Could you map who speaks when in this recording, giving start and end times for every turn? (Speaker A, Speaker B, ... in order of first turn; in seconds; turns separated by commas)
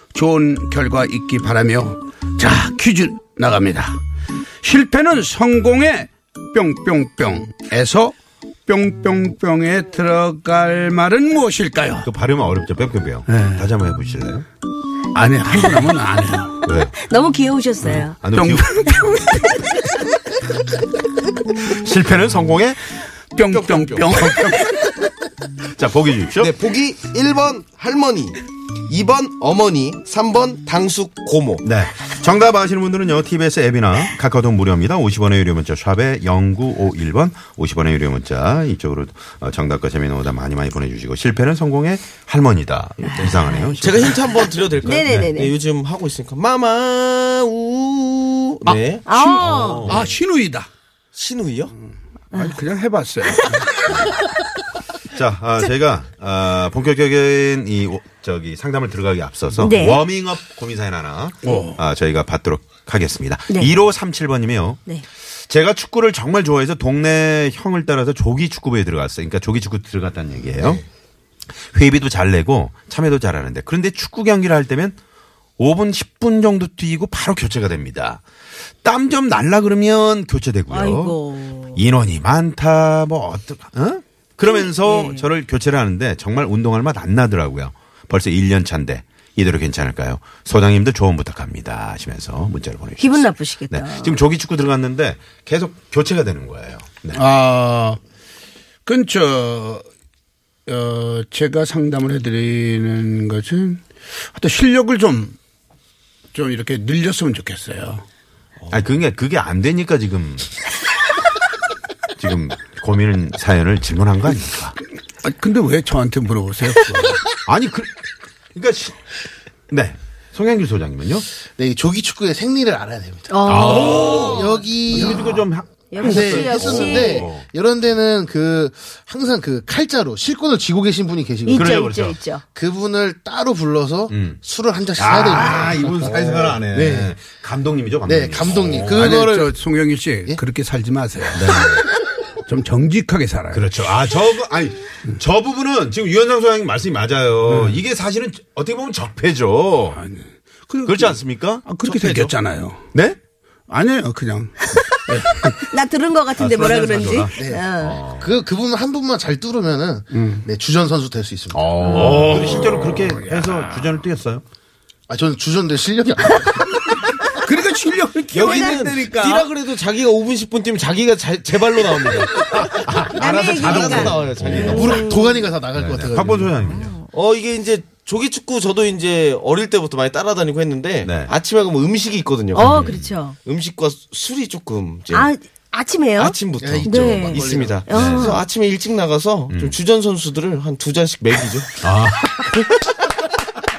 Speaker A: 0.1-4.0, Speaker A: 4.6-8.1, Speaker A: 8.7-12.1, Speaker B: 12.0-14.4, Speaker A: 13.3-13.7, Speaker A: 15.1-16.6, Speaker B: 16.6-16.9, Speaker C: 17.0-18.2, Speaker A: 17.8-19.5, Speaker B: 18.2-18.9, Speaker C: 19.2-19.9, Speaker B: 21.8-22.8, Speaker A: 23.3-24.7, Speaker D: 23.4-24.5, Speaker B: 25.7-26.5, Speaker D: 26.4-31.6, Speaker B: 31.6-44.4, Speaker D: 43.2-49.1, Speaker C: 43.2-43.8, Speaker C: 44.8-45.5, Speaker B: 45.0-45.3, Speaker A: 48.6-50.7, Speaker C: 49.1-49.9, Speaker B: 49.4-50.1, Speaker D: 51.1-51.7, Speaker A: 52.3-53.7, Speaker C: 53.4-53.9, Speaker B: 55.1-64.8, Speaker C: 59.6-60.0, Speaker A: 61.4-61.8, Speaker B: 65.5-70.8, Speaker B: 71.6-75.0, Speaker B: 75.6-78.2, Speaker B: 78.8-81.2, Speaker C: 80.7-81.8, Speaker B: 81.7-97.2, Speaker C: 84.5-85.3, Speaker C: 93.0-94.2, Speaker A: 97.1-98.0, Speaker A: 98.8-99.8, Speaker A: 100.7-105.3, Speaker A: 106.3-108.0, Speaker D: 108.6-108.8, Speaker B: 108.7-110.5, Speaker B: 112.2-114.7, Speaker A: 115.2-117.2, Speaker B: 117.5-117.9, Speaker B: 118.5-119.0, Speaker B: 119.7-121.2, Speaker E: 121.6-125.5, Speaker C: 123.3-125.0, Speaker B: 123.5-127.5, Speaker C: 125.9-127.3, Speaker E: 126.0-131.9, Speaker C: 131.4-132.4, Speaker B: 131.5-132.2, Speaker E: 132.5-137.1, Speaker B: 134.1-134.4, Speaker B: 134.9-139.3, Speaker E: 138.1-139.6, Speaker A: 138.9-141.7, Speaker B: 141.3-141.8, Speaker A: 142.5-143.7, Speaker B: 143.5-150.0, Speaker A: 147.5-147.8, Speaker A: 149.9-152.8, Speaker B: 150.8-151.6, Speaker D: 151.8-152.3, Speaker A: 153.7-155.6, Speaker C: 155.5-158.0, Speaker B: 156.3-158.4, Speaker E: 157.3-162.3, Speaker A: 160.1-160.4, Speaker B: 161.5-164.4, Speaker A: 161.9-163.9, Speaker E: 165.1-167.0, Speaker A: 167.3-169.5, Speaker D: 168.3-175.1, Speaker B: 172.6-174.9, Speaker C: 173.1-175.5, Speaker E: 174.5-176.6, Speaker B: 175.7-177.0, Speaker D: 177.0-185.3, Speaker B: 181.0-181.3, Speaker C: 182.5-183.4, Speaker B: 182.6-183.1, Speaker C: 185.1-188.4, Speaker D: 186.2-191.7, Speaker E: 186.6-187.8, Speaker B: 187.9-188.4, Speaker B: 189.5-189.8, Speaker B: 191.8-192.7